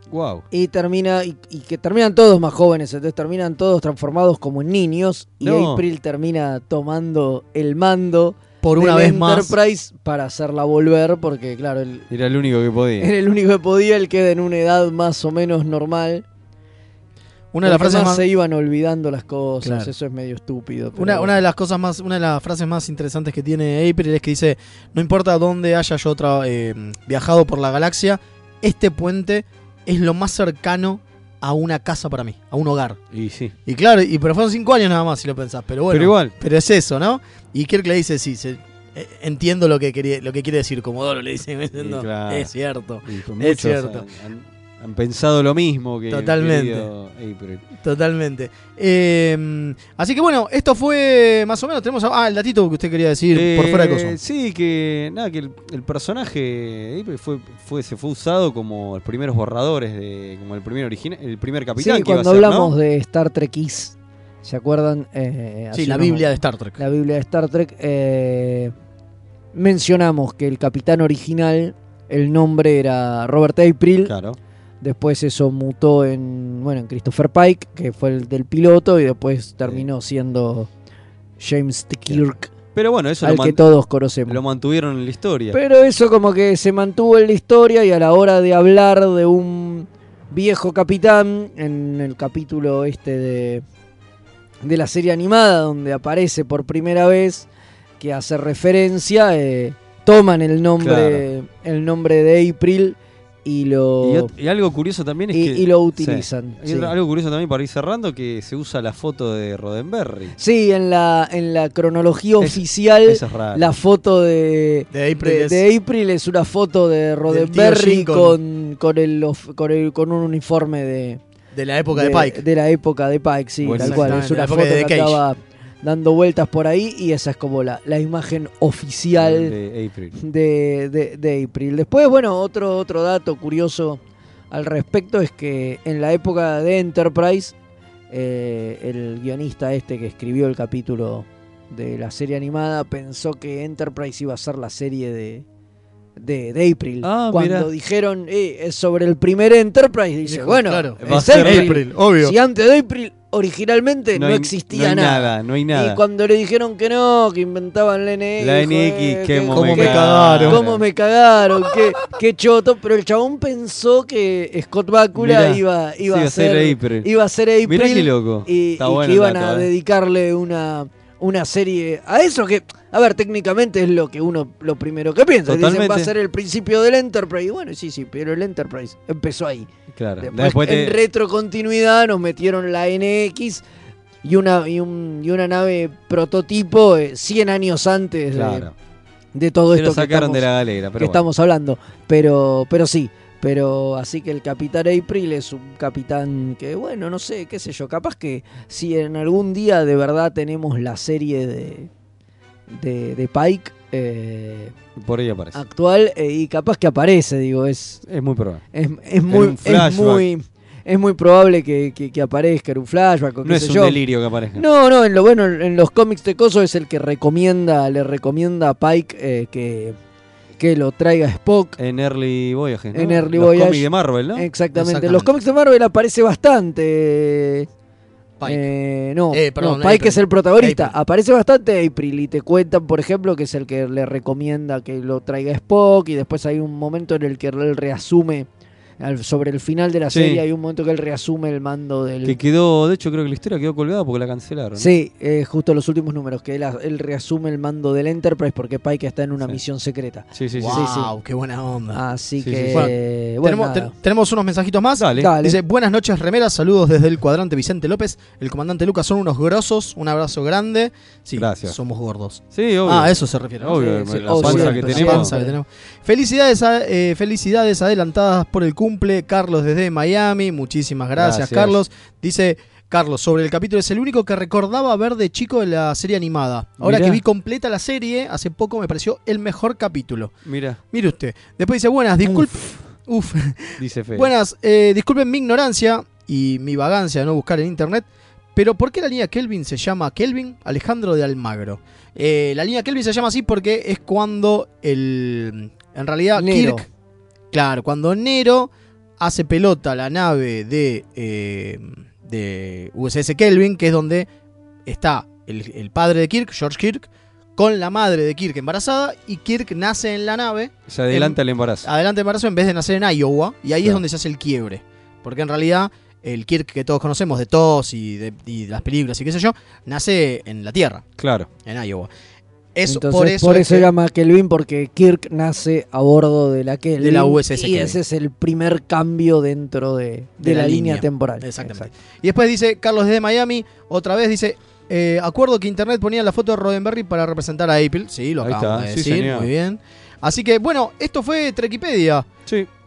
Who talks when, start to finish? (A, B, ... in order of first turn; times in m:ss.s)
0:00.1-0:00.4 A
0:00.5-0:12.1 B
0:05.4-0:05.8 A
0:08.6-0:09.6 C
0:12.1-0:13.1 A
0:13.0-0:16.2 B
0:17.5-0:18.3 C
0:17.6-0:21.4 B
0:19.6-0:19.9 C
0:21.0-0:33.0 C
0:33.1-0:33.5 A
0:33.7-0:44.1 C
0:35.9-0:36.3 A
0:41.8-0:42.5 A
0:43.0-0:47.6 A
0:46.1-0:46.9 C
0:47.8-0:54.2 C
0:53.3-1:02.7 A
1:01.8-1:08.7 B
1:05.7-1:06.8 C
1:09.5-1:14.1 B
1:14.1-1:14.4 A
1:14.8-1:20.7 B
1:21.4-1:22.5 B
1:22.8-1:23.6 A
1:23.2-1:24.4 B
1:24.3-1:25.6 A
1:25.5-1:33.6 B
1:34.6-1:37.5 B
1:38.0-1:44.3 B
1:40.8-1:41.2 A
1:44.0-1:50.4 A
1:45.3-1:46.9 B
1:50.4-2:01.2 B
1:52.4-1:53.7 A
1:54.9-1:55.6 C
1:57.3-1:58.4 C
2:01.5-2:02.4 C
2:01.9-2:09.5 B
2:03.6-2:04.2 A
2:03.8-2:05.2 C
2:09.2-2:10.2 A
2:10.2-2:14.0 B
2:14.5-2:17.5 B
2:18.1-2:25.4 B
2:26.2-2:59.7 B
2:27.0-2:27.7 A
2:30.3-2:32.4 C
2:31.0-2:31.8 A
2:34.2-2:36.0 A
2:38.4-2:40.8 A
2:39.5-2:40.6 C
2:45.2-2:47.1 A
2:47.6-2:49.7 A
2:55.5-2:56.1 A
3:00.0-3:01.0 A
3:00.2-3:03.6 B
3:04.2-3:08.7 B
3:08.3-3:08.7 A
3:09.4-3:10.5 B
3:09.7-3:11.2 A
3:11.0-3:21.9 B
3:22.7-3:24.7 B
3:25.0-3:25.6 A
3:25.5-3:28.0 B
3:28.1-3:28.6 A
3:28.7-3:34.0 B
3:29.3-3:30.3 A
3:33.4-3:34.6 A
3:34.6-3:40.0 B
3:40.6-3:41.8 B
3:41.8-3:44.5 A
3:42.9-3:47.7 B
3:44.7-3:45.3 C
3:48.4-3:48.7 C
3:48.4-3:58.5 B
3:49.3-3:51.0 C
3:59.0-4:02.4 B
4:00.1-4:00.4 A
4:02.2-4:04.9 A
4:04.8-4:11.1 B
4:10.4-4:10.8 A
4:10.6-4:12.0 C
4:11.9-4:13.9 B
4:12.4-4:12.9 A
4:12.7-4:40.4 C
4:15.0-4:15.3 A
4:15.2-4:15.6 B
4:21.4-4:21.8 A
4:22.5-4:25.3 A
4:23.7-4:25.6 B
4:31.2-4:31.8 A
4:36.8-4:37.2 A
4:40.5-4:40.8 A
4:40.9-4:56.9 C
4:43.8-4:44.3 A
4:56.4-4:56.8 B
4:57.5-5:04.3 C
5:04.9-5:21.0 C
5:10.9-5:11.9 A
5:21.2-5:21.5 A
5:21.6-5:22.1 C
5:22.8-5:23.9 C
5:22.9-5:31.9 B
5:27.0-5:28.0 C
5:30.4-5:42.3 C
5:38.4-5:39.5 A